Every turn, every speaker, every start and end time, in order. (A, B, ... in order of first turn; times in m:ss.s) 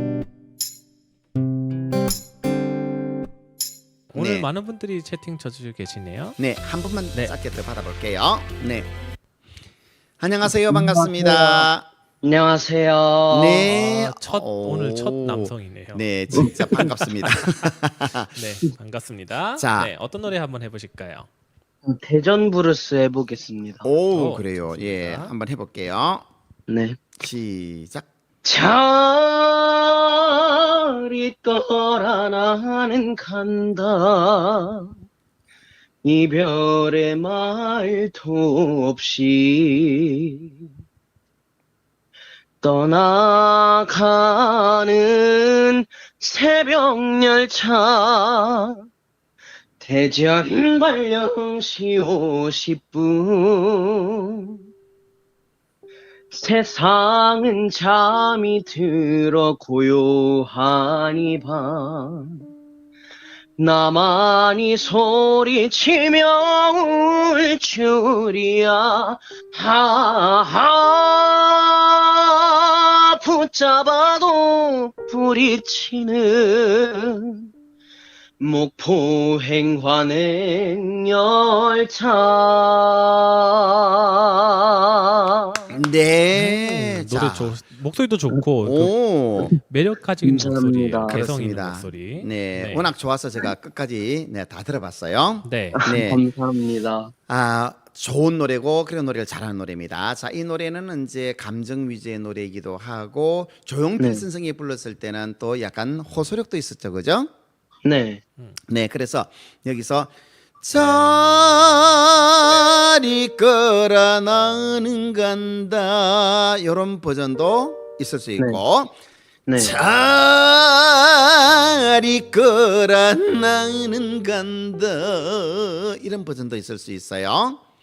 0:04.1-0:06.4 A
0:04.1-0:04.5 B
0:06.4-0:08.9 B
0:10.2-0:11.9 B
0:10.7-0:11.7 C
0:12.2-0:13.7 C
0:13.3-0:18.4 B
0:13.6-0:17.7 A
0:16.3-0:16.9 C
0:18.3-0:21.3 A
0:19.6-0:19.9 B
0:21.8-0:23.9 C
0:23.8-0:26.2 B
0:24.1-0:25.3 A
0:26.7-0:27.1 C
0:27.2-0:28.1 B
0:28.4-0:34.9 C
0:36.0-0:40.5 C
0:42.6-0:48.8 C
0:49.8-0:54.6 C
0:56.3-1:02.4 C
1:03.6-1:17.5 C
1:18.4-1:25.7 C
1:25.7-1:27.5 B
1:26.3-1:29.0 A
1:28.6-1:29.5 B
1:29.5-1:32.9 A
1:30.2-1:31.2 C
1:31.1-1:36.2 B
1:35.4-1:35.8 A
1:35.7-1:37.1 C
1:37.3-1:47.3 B
1:44.0-1:44.2 C
1:47.8-1:48.2 C
1:48.7-1:58.9 B
1:59.5-1:59.8 C
1:59.6-2:07.6 B